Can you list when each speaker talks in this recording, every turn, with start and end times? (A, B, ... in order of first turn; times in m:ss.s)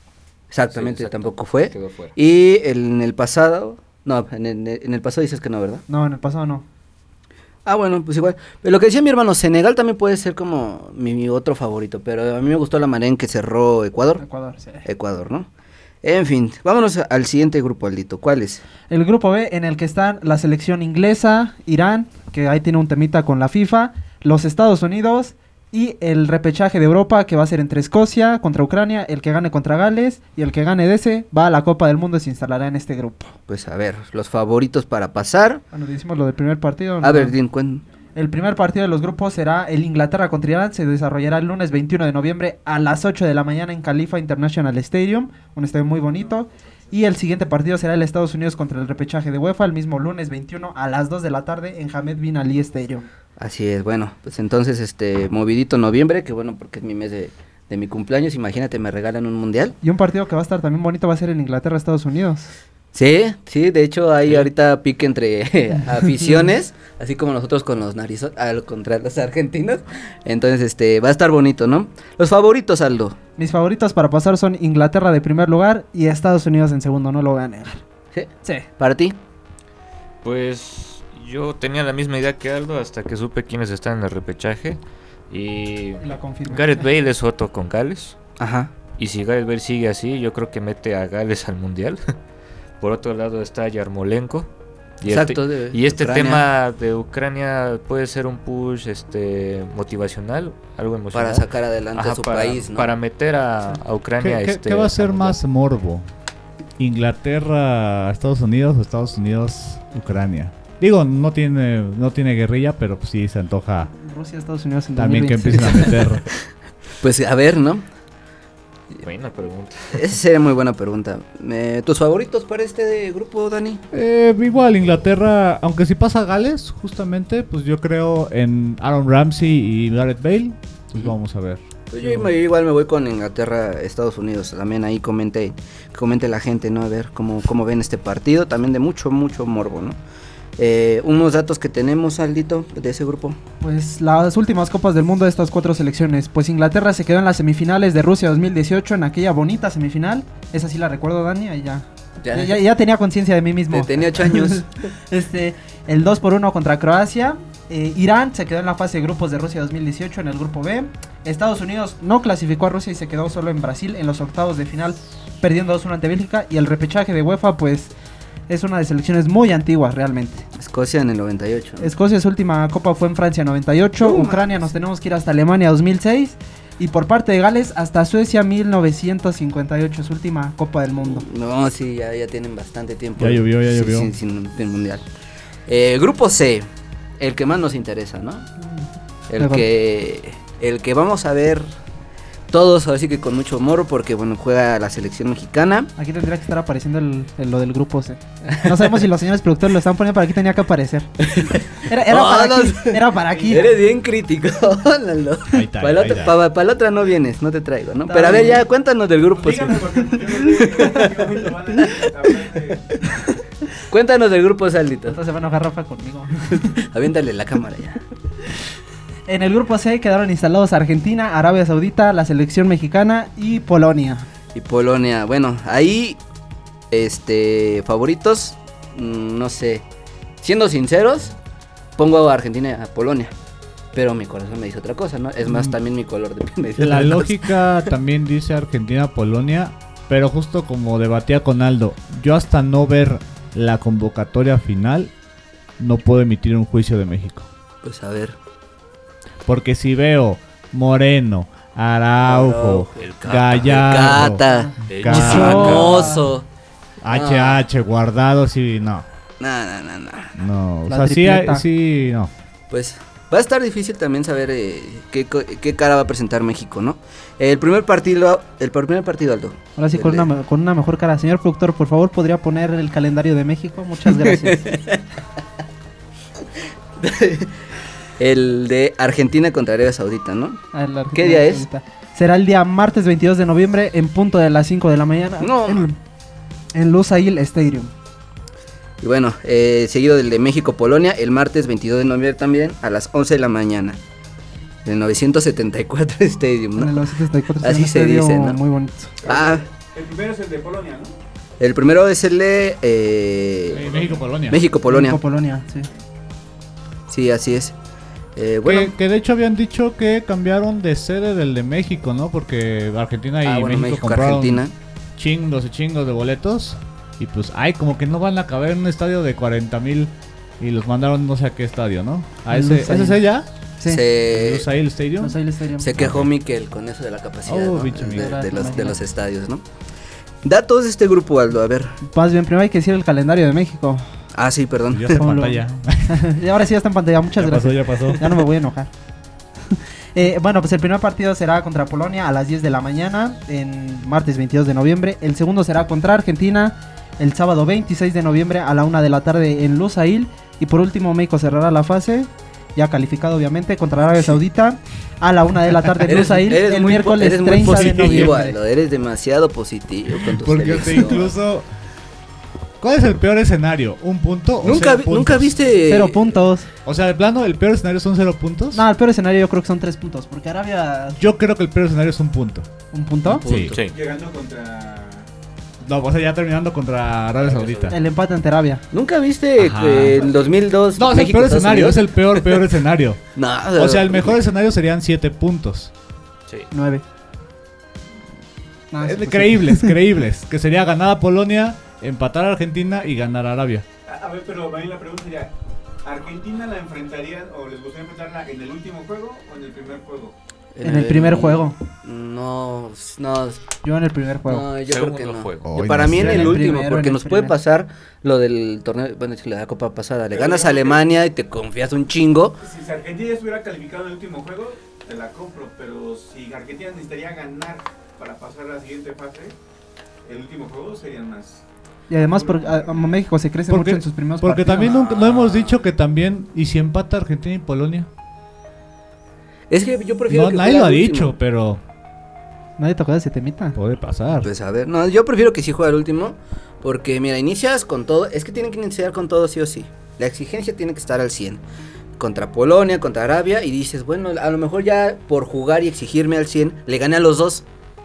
0:00.5-0:05.8 A
0:00.7-0:02.1 B
0:05.9-0:06.6 C
0:07.7-0:14.2 A
0:14.2-0:14.8 C
0:14.8-0:15.5 A
0:16.0-0:18.6 A
0:18.9-0:33.4 C
0:33.5-0:35.6 A
0:35.7-0:37.4 C
0:37.0-0:37.8 A
0:38.2-0:53.0 C
0:53.4-0:59.8 A
0:59.8-1:02.5 C
1:02.9-1:13.2 A
1:13.4-1:17.8 C
1:18.1-1:19.2 A
1:20.2-1:28.2 B
1:26.0-1:26.9 C
1:28.4-1:28.7 A
1:29.0-1:32.1 B
1:32.8-1:34.5 B
1:35.0-1:45.4 B
1:35.1-1:36.4 A
1:41.1-1:42.9 A
1:44.2-1:46.1 D
1:46.8-1:53.9 D
1:54.0-1:56.0 C
1:55.0-1:56.3 D
1:57.0-1:57.8 A
1:59.0-2:00.1 B
1:59.9-2:03.8 A
2:03.9-2:12.3 D
2:11.9-2:20.0 A
2:20.6-2:23.4 A
2:23.6-2:47.9 C
2:32.2-2:32.6 A
2:33.7-2:34.7 A
2:48.5-2:50.5 C
2:50.6-2:51.9 A
2:51.8-3:01.2 C
2:54.0-2:54.7 A
3:01.0-3:05.0 A
3:03.2-3:04.1 D
3:05.7-3:06.7 A
3:07.2-3:08.5 A
3:08.6-3:08.9 C
3:09.3-3:11.7 A
3:09.4-3:09.7 C
3:12.5-3:15.9 A
3:16.0-3:21.1 C
3:21.2-3:31.1 A
3:21.8-3:23.7 C
3:23.3-3:23.9 E
3:25.5-3:26.4 D
3:28.1-3:28.6 C
3:29.3-3:32.9 E
3:33.9-3:35.2 A
3:35.1-3:36.8 C
3:36.8-3:38.0 A
3:39.3-3:44.3 C
3:44.5-3:46.2 A
3:46.9-3:49.8 A
3:50.4-3:51.3 A
3:52.0-3:53.3 A
3:53.9-3:57.4 A
3:55.5-3:55.7 D
3:56.8-4:05.1 D
4:05.8-4:07.5 D
4:07.8-4:08.4 A
4:09.5-4:16.1 D
4:12.2-4:16.5 A
4:13.0-4:13.9 B
4:14.4-4:16.2 C
4:14.9-4:16.2 B
4:17.0-4:19.1 D
4:17.1-4:17.6 A
4:19.4-4:20.4 A
4:20.4-4:22.3 D
4:20.9-4:21.6 C
4:22.7-4:30.3 A
4:29.8-4:34.7 C
4:34.3-4:35.0 A
4:37.0-4:37.6 A
4:38.2-4:40.6 A
4:40.7-4:46.0 C
4:41.1-4:41.7 A
4:45.4-4:45.8 A
4:46.7-4:47.9 C
4:49.0-4:54.0 A
4:54.8-4:57.1 A
4:56.8-4:59.2 C
4:57.6-4:58.6 A
4:59.2-5:01.1 E
4:59.2-4:59.7 A
5:01.6-5:03.8 A
5:03.7-5:04.6 D
5:03.8-5:04.3 E
5:04.5-5:05.2 A
5:04.8-5:05.9 C
5:07.1-5:07.8 A
5:08.4-5:08.9 A
5:08.6-5:14.6 D
5:13.4-5:14.7 A
5:15.2-5:23.5 D
5:22.5-5:23.2 C
5:23.8-5:24.0 C
5:23.8-5:24.7 A
5:24.2-5:25.4 D
5:25.2-5:25.9 C
5:25.8-5:29.6 A
5:26.0-5:26.3 D
5:27.4-5:28.4 D
5:28.1-5:29.0 C
5:30.4-5:32.0 A
5:32.0-5:34.1 C
5:34.3-5:35.2 A
5:34.9-5:36.4 D
5:35.1-5:38.9 C
5:37.4-5:38.4 D
5:39.7-5:58.6 C
5:56.0-6:01.3 A
5:57.6-5:58.5 D
6:00.2-6:01.7 D
6:02.8-6:05.6 D
6:04.6-6:06.4 A
6:05.9-6:06.7 C
6:06.8-6:08.8 D
6:08.7-6:11.2 C
6:11.2-6:12.7 D
6:12.9-6:13.5 C
6:13.3-6:13.8 D
6:13.3-6:13.8 A
6:13.9-6:15.3 E
6:15.8-6:18.0 D
6:17.4-6:18.0 B
6:17.9-6:18.8 C
6:18.9-6:22.7 A
6:19.6-6:20.3 D
6:21.0-6:23.2 D
6:23.4-6:24.4 A
6:23.8-6:25.9 D
6:26.7-6:27.0 C
6:28.9-6:30.0 C
6:29.0-6:33.8 D
6:34.1-6:35.5 E
6:36.0-6:40.4 E
6:40.8-6:43.6 A
6:40.8-6:41.8 C
6:43.8-6:44.7 C
6:44.5-6:52.6 A
6:44.9-6:45.9 B
6:45.6-6:46.7 D
6:46.1-6:47.6 C
6:50.3-6:51.1 E
6:52.6-6:59.6 E
7:00.2-7:01.6 E
7:02.1-7:05.0 C
7:02.2-7:03.2 E
7:03.7-7:08.1 D
7:05.0-7:05.6 A
7:09.7-7:11.3 A
7:10.3-7:11.8 D
7:12.8-7:13.8 C
7:13.8-7:14.5 D
7:14.4-7:21.6 A
7:22.2-7:27.6 A